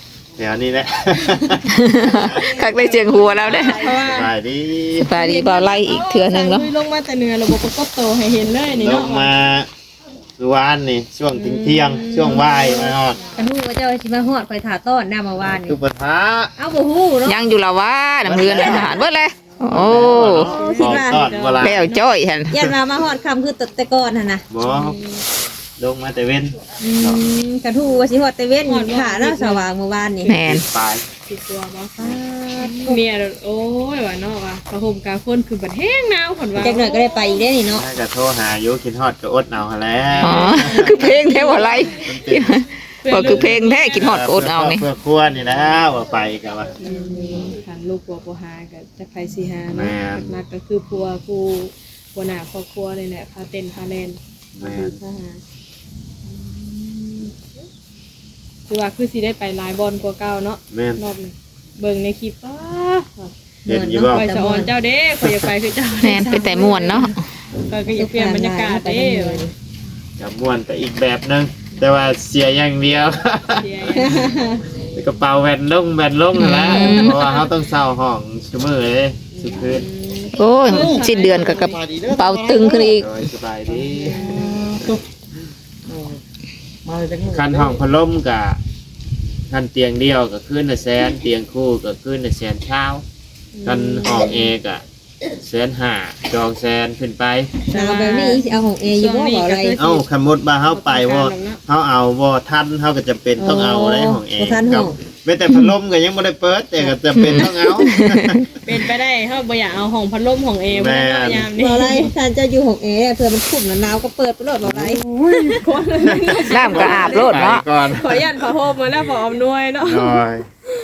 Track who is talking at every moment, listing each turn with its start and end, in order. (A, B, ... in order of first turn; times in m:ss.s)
0:00.4-0:01.7 A
0:01.7-0:03.8 B
0:02.2-0:04.0 C
0:03.4-0:04.3 D
0:04.0-0:05.1 A
0:05.0-0:06.7 B
0:05.2-0:09.3 D
0:08.7-0:09.7 A
0:10.4-0:13.2 A
0:11.4-0:13.3 D
0:13.4-0:15.8 C
0:15.6-0:16.5 A
0:16.6-0:17.4 C
0:17.2-0:20.5 B
0:18.2-0:19.0 A
0:18.4-0:19.0 C
0:19.7-0:21.9 A
0:19.9-0:22.0 D
0:20.5-0:21.3 C
0:21.6-0:22.6 B
0:22.5-0:24.4 C
0:24.5-0:25.0 A
0:24.6-0:25.2 D
0:25.8-0:27.2 A
0:26.8-0:30.3 C
0:28.7-0:29.7 D
0:30.3-0:30.6 B
0:30.4-0:31.0 A
0:31.3-0:37.4 D
0:32.5-0:33.0 C
0:36.6-0:37.9 C
0:37.7-0:42.6 A
0:40.2-0:42.1 D
0:40.2-0:44.9 B
0:43.0-0:44.0 D
0:43.2-0:46.7 A
0:46.8-0:55.4 D
0:46.8-0:47.3 C
0:49.7-0:50.3 A
0:54.6-0:55.0 A
0:56.3-0:57.3 D
0:58.7-1:03.3 D
1:00.7-1:01.0 A
1:03.7-1:04.2 A
1:03.7-1:04.7 C
1:04.1-1:07.1 D
1:06.0-1:07.2 B
1:07.7-1:09.5 D
1:07.9-1:09.5 C
1:10.2-1:14.2 A
1:13.5-1:14.2 D
1:14.0-1:14.6 C
1:14.9-1:19.9 A
1:16.4-1:17.2 B
1:16.7-1:17.5 D
1:19.3-1:21.4 D
1:20.4-1:23.1 B
1:20.7-1:23.0 E
1:23.0-1:24.9 A
1:23.7-1:25.0 E
1:24.2-1:24.4 D
1:25.9-1:26.2 E
1:26.8-1:27.8 E
1:27.3-1:28.6 A
1:29.5-1:33.0 A
1:33.6-1:34.5 D
1:33.7-1:37.6 A
1:37.7-1:40.0 D
1:37.7-1:39.8 C
1:39.8-1:48.5 A
1:40.7-1:41.6 D
1:43.4-1:44.9 C
1:45.5-1:45.8 B
1:47.1-1:48.4 B
1:48.6-1:52.1 D
1:50.7-1:51.5 A
1:51.6-1:55.5 C
1:54.6-1:55.6 E
1:55.6-1:57.1 D
1:56.1-1:58.2 A
1:56.4-1:57.4 C
1:56.5-1:57.6 B
1:57.8-2:00.2 D
1:59.8-2:00.4 A